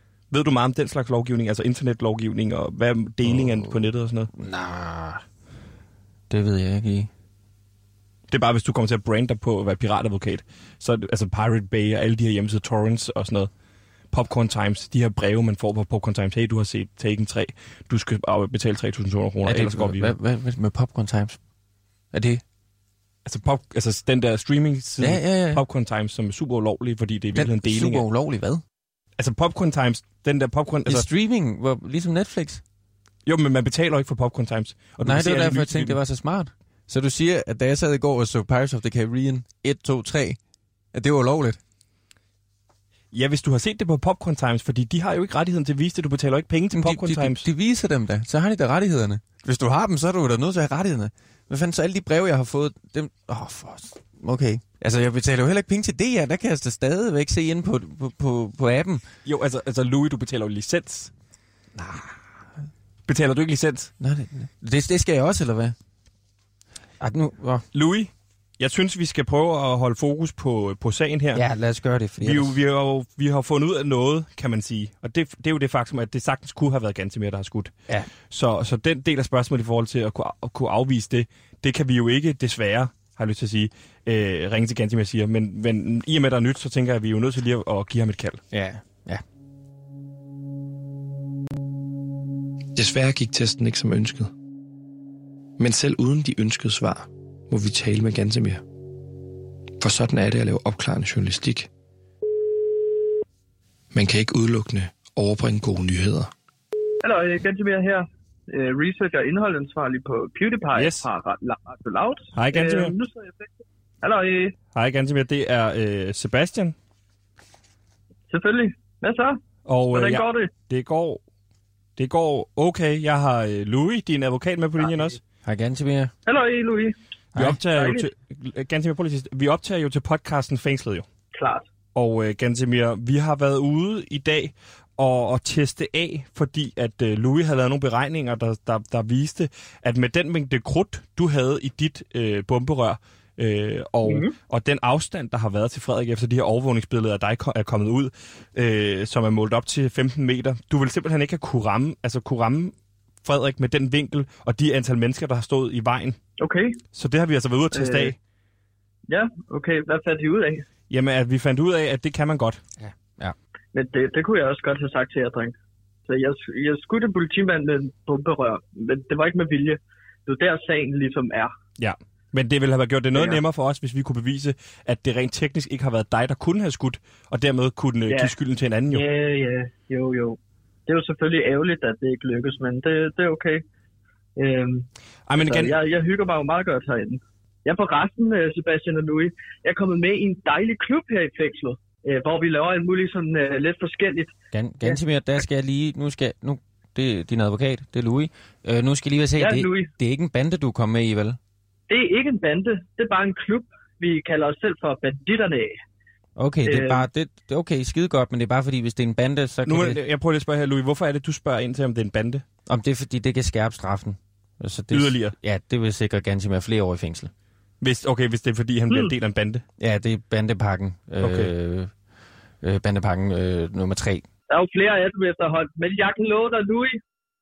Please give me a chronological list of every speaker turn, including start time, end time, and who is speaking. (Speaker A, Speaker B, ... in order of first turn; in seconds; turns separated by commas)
Speaker A: 0.3-4.3, Speaker B: 3.2-5.2, Speaker B: 6.3-7.1, Speaker A: 8.3-13.5, Speaker A: 14.1-20.1, Speaker B: 19.4-21.4, Speaker B: 22.1-22.4, Speaker A: 23.2-28.0, Speaker B: 25.0-25.6, Speaker B: 27.3-28.6, Speaker A: 29.2-31.1, Speaker B: 30.9-32.6, Speaker A: 33.2-36.0, Speaker B: 35.0-40.4, Speaker B: 40.9-41.6, Speaker A: 43.1-47.5, Speaker B: 46.7-59.0, Speaker A: 59.2-61.1, Speaker B: 61.7-62.2, Speaker A: 63.1-63.9, Speaker B: 64.0-65.7, Speaker B: 67.0-67.6, Speaker A: 67.7-71.4, Speaker B: 71.3-72.6, Speaker A: 72.2-77.7, Speaker A: 78.3-88.4, Speaker B: 88.5-89.2, Speaker C: 92.8-94.3, Speaker C: 95.6-98.6, Speaker C: 99.8-101.7, Speaker C: 103.9-106.3, Speaker D: 107.0-114.5, Speaker A: 110.7-111.1, Speaker A: 112.3-112.9, Speaker A: 114.7-116.7, Speaker D: 118.3-119.4, Speaker A: 119.7-121.2, Speaker D: 119.9-120.5, Speaker A: 122.0-125.2, Speaker B: 125.4-126.1, Speaker D: 126.2-126.9, Speaker A: 127.3-131.1, Speaker D: 127.7-128.1, Speaker D: 131.3-131.7, Speaker A: 131.9-156.2, Speaker D: 144.0-144.3, Speaker D: 156.4-156.8, Speaker A: 156.9-158.2, Speaker D: 157.7-158.1, Speaker D: 159.1-160.6, Speaker A: 160.9-162.6, Speaker B: 162.8-163.3, Speaker D: 163.7-165.5, Speaker D: 166.1-171.5, Speaker A: 171.8-179.0, Speaker D: 173.1-173.4, Speaker D: 178.9-183.6, Speaker D: 184.4-195.0, Speaker A: 185.3-185.8, Speaker B: 194.5-201.4, Speaker D: 199.4-199.9, Speaker D: 201.9-205.7, Speaker B: 206.4-210.0, Speaker D: 206.6-207.0, Speaker A: 209.7-212.4, Speaker B: 212.7-217.3, Speaker A: 214.9-215.3, Speaker A: 217.8-219.6, Speaker B: 219.8-221.9, Speaker A: 221.2-221.5, Speaker B: 222.6-224.2, Speaker D: 224.5-227.0